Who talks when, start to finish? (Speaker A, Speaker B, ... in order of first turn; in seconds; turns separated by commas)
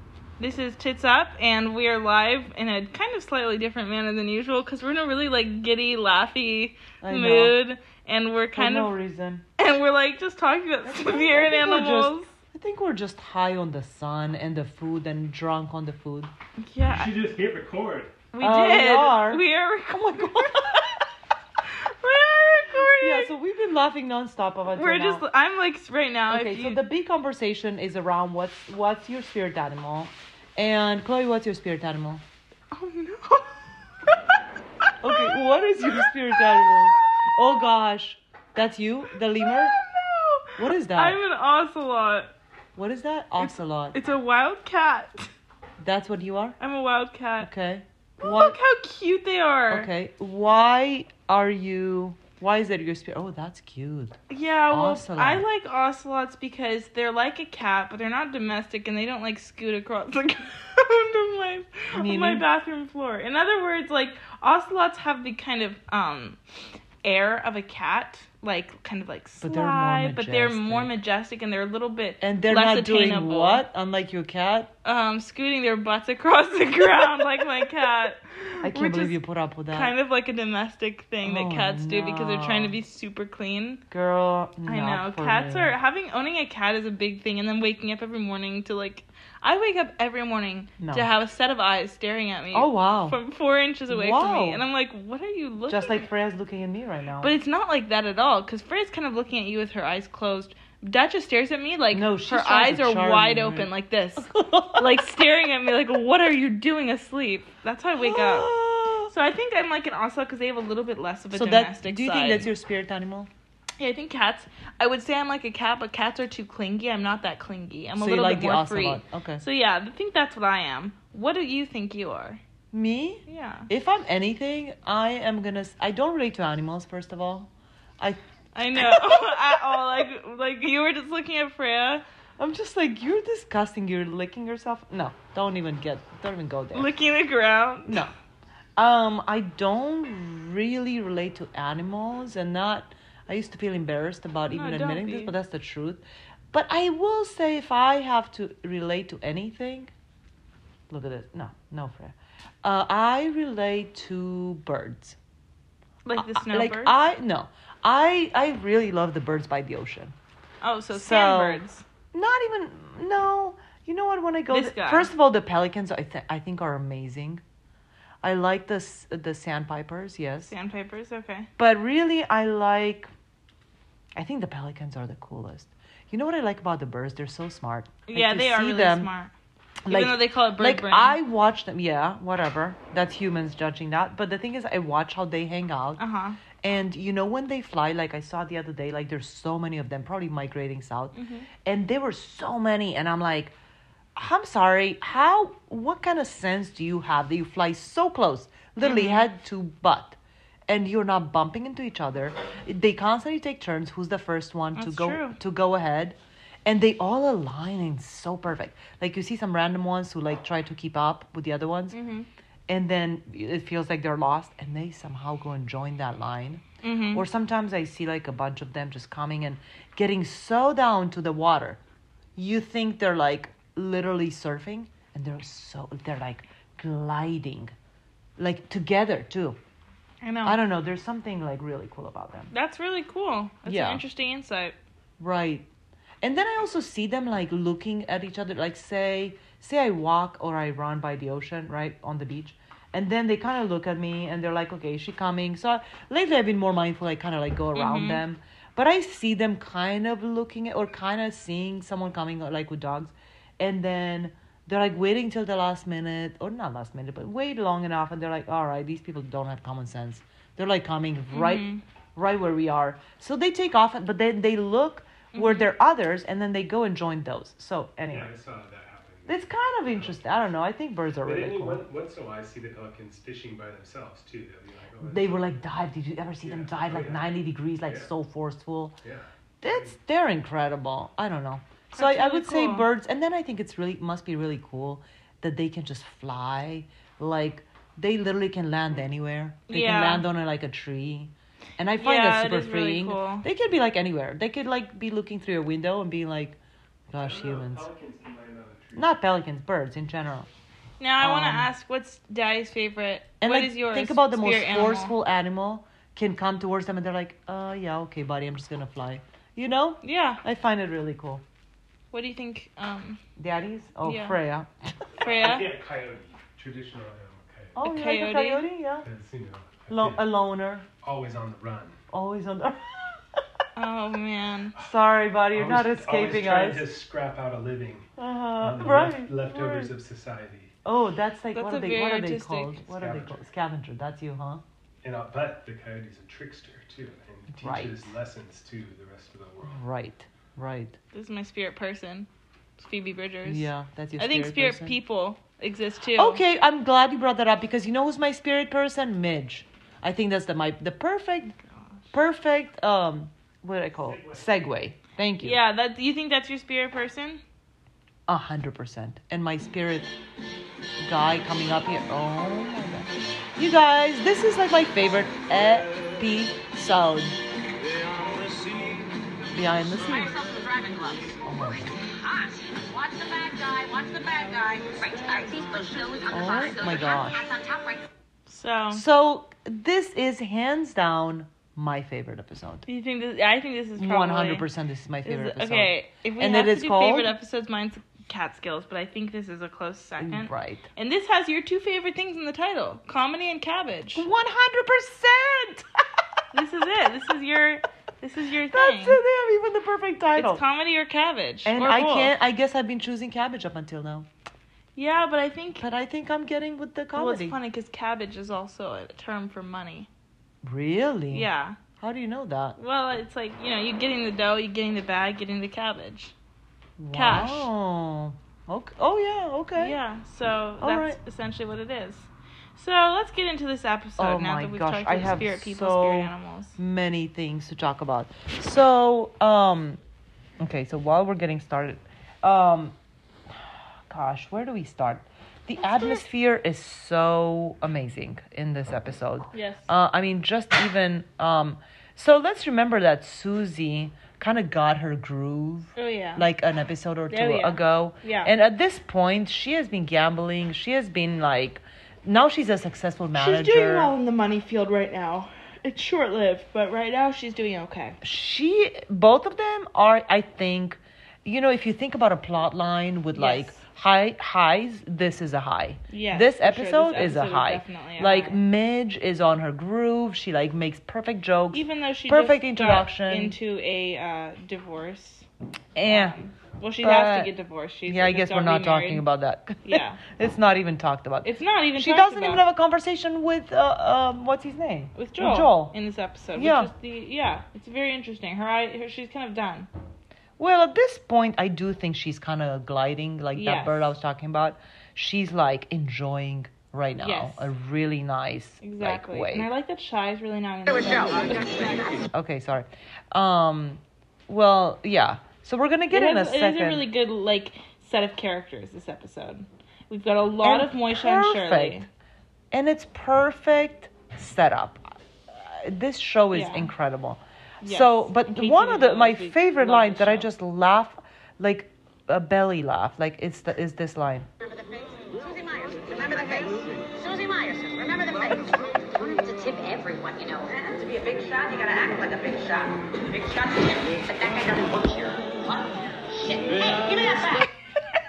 Speaker A: 0.4-8.9, Speaker B: 7.0-7.5, Speaker B: 8.5-9.4, Speaker A: 9.6-12.3, Speaker B: 10.8-16.3, Speaker A: 16.6-17.2, Speaker C: 16.8-18.2, Speaker A: 18.3-20.8, Speaker B: 18.4-20.8, Speaker A: 21.8-23.3, Speaker B: 23.0-25.2, Speaker A: 24.7-26.8, Speaker B: 26.3-32.2, Speaker A: 32.7-33.6, Speaker A: 34.1-34.4, Speaker B: 35.0-39.8, Speaker A: 35.1-36.8, Speaker A: 39.4-42.3, Speaker B: 40.6-41.2, Speaker B: 42.7-44.0, Speaker A: 43.4-45.3, Speaker B: 45.8-46.6, Speaker A: 46.6-47.5, Speaker B: 47.4-48.6, Speaker A: 48.2-49.9, Speaker B: 49.7-55.5, Speaker A: 54.3-66.4, Speaker B: 61.9-62.4, Speaker A: 67.0-73.6, Speaker B: 69.4-70.9, Speaker B: 72.2-74.7, Speaker A: 74.8-79.2, Speaker B: 78.6-79.9, Speaker A: 79.7-83.8, Speaker B: 81.2-82.8, Speaker B: 83.9-85.8, Speaker A: 84.7-96.0, Speaker B: 90.8-91.1, Speaker B: 92.5-93.2, Speaker B: 93.9-94.6, Speaker B: 95.7-97.3, Speaker A: 97.2-108.5, Speaker B: 101.9-105.1, Speaker B: 107.9-109.1, Speaker A: 109.1-112.5, Speaker B: 111.3-113.3, Speaker A: 113.8-122.4, Speaker B: 118.0-119.4, Speaker B: 122.7-128.2, Speaker A: 123.3-123.7, Speaker A: 128.5-132.0, Speaker B: 128.7-129.8, Speaker B: 132.4-136.9, Speaker A: 136.7-138.0, Speaker B: 137.8-138.1, Speaker B: 138.8-149.9, Speaker A: 144.5-145.3, Speaker B: 150.9-155.2, Speaker A: 156.0-156.9, Speaker B: 156.2-160.1, Speaker A: 160.6-161.8, Speaker B: 160.9-161.6, Speaker B: 162.1-167.4, Speaker A: 164.5-165.1, Speaker B: 168.2-170.5, Speaker A: 170.5-171.5, Speaker B: 171.6-173.1, Speaker B: 174.1-179.1, Speaker A: 178.1-179.3, Speaker B: 179.8-186.0, Speaker A: 179.9-181.2, Speaker A: 186.0-186.4, Speaker B: 186.6-193.5, Speaker A: 191.1-191.5, Speaker B: 194.1-212.0, Speaker A: 198.8-199.3, Speaker A: 204.8-205.4, Speaker A: 211.9-212.3, Speaker B: 212.7-221.8, Speaker A: 216.8-217.2, Speaker B: 222.3-227.7, Speaker B: 228.4-229.6, Speaker A: 230.2-230.6, Speaker B: 230.4-232.5, Speaker A: 232.5-234.8, Speaker B: 233.6-234.0, Speaker B: 235.2-235.7, Speaker B: 236.2-268.3, Speaker A: 247.7-248.2, Speaker A: 261.3-261.8, Speaker A: 265.3-265.7, Speaker C: 268.1-269.4, Speaker B: 269.3-271.9, Speaker C: 269.9-270.4, Speaker C: 271.2-275.5, Speaker B: 275.0-278.9, Speaker C: 276.4-278.1, Speaker C: 279.0-279.9, Speaker B: 279.6-296.6, Speaker A: 281.9-282.9, Speaker A: 289.7-290.2, Speaker A: 292.0-293.4, Speaker B: 297.1-297.9, Speaker C: 297.1-299.1, Speaker B: 298.9-300.5, Speaker A: 301.0-305.1, Speaker B: 301.2-301.7, Speaker B: 303.4-311.4, Speaker A: 310.0-310.4, Speaker A: 312.1-313.2, Speaker B: 313.4-314.9, Speaker A: 314.0-314.4, Speaker C: 315.2-317.8, Speaker A: 315.2-315.7, Speaker B: 317.8-319.1, Speaker A: 317.8-318.7, Speaker C: 319.0-320.2, Speaker B: 319.9-320.9, Speaker C: 321.0-322.0, Speaker B: 322.1-323.2, Speaker A: 323.8-324.7, Speaker B: 324.8-326.9, Speaker C: 325.5-330.7, Speaker B: 328.2-329.9, Speaker B: 330.8-334.6, Speaker A: 331.5-332.8, Speaker C: 332.9-333.4, Speaker C: 335.0-339.8, Speaker B: 337.5-338.1, Speaker B: 339.6-341.0, Speaker A: 341.1-346.4, Speaker B: 343.4-345.0, Speaker B: 346.1-351.6, Speaker B: 352.1-355.6, Speaker C: 353.9-354.4, Speaker A: 355.4-357.4, Speaker B: 358.3-360.1, Speaker B: 361.0-367.4, Speaker B: 369.5-370.3, Speaker D: 370.1-378.0, Speaker B: 371.4-371.9, Speaker B: 376.3-377.4, Speaker A: 378.5-379.0, Speaker B: 378.9-382.9, Speaker A: 382.9-384.7, Speaker B: 384.0-387.3, Speaker A: 385.2-394.2, Speaker B: 390.2-390.9, Speaker B: 394.1-395.9, Speaker A: 396.5-399.2, Speaker B: 398.6-400.6, Speaker A: 400.4-402.3, Speaker B: 401.6-404.3, Speaker A: 404.9-405.8, Speaker B: 405.8-407.6, Speaker A: 407.1-410.1, Speaker B: 410.6-412.8, Speaker A: 411.3-411.8, Speaker A: 412.8-416.3, Speaker B: 417.0-420.0, Speaker A: 417.1-417.7, Speaker A: 419.8-426.8, Speaker B: 420.8-421.2, Speaker B: 424.2-430.0, Speaker B: 430.6-432.9, Speaker B: 433.5-454.1, Speaker A: 435.8-436.2, Speaker A: 439.5-439.9, Speaker A: 445.9-446.5, Speaker A: 447.3-448.5, Speaker A: 453.3-458.2, Speaker B: 458.2-473.6, Speaker A: 463.3-463.8, Speaker A: 466.1-468.6, Speaker A: 471.7-475.5, Speaker B: 475.9-476.4, Speaker A: 476.0-479.2, Speaker B: 477.0-477.5, Speaker B: 478.1-485.9, Speaker A: 479.8-480.2, Speaker A: 481.4-482.6, Speaker A: 485.1-489.9, Speaker B: 486.5-486.9, Speaker B: 490.6-499.7, Speaker A: 493.5-494.1, Speaker A: 497.2-497.7, Speaker A: 498.8-501.8, Speaker D: 501.2-501.9, Speaker B: 502.3-507.1, Speaker A: 506.1-512.1, Speaker B: 510.6-512.0, Speaker B: 512.7-524.5, Speaker A: 516.5-516.9, Speaker A: 517.8-520.5, Speaker D: 524.6-537.7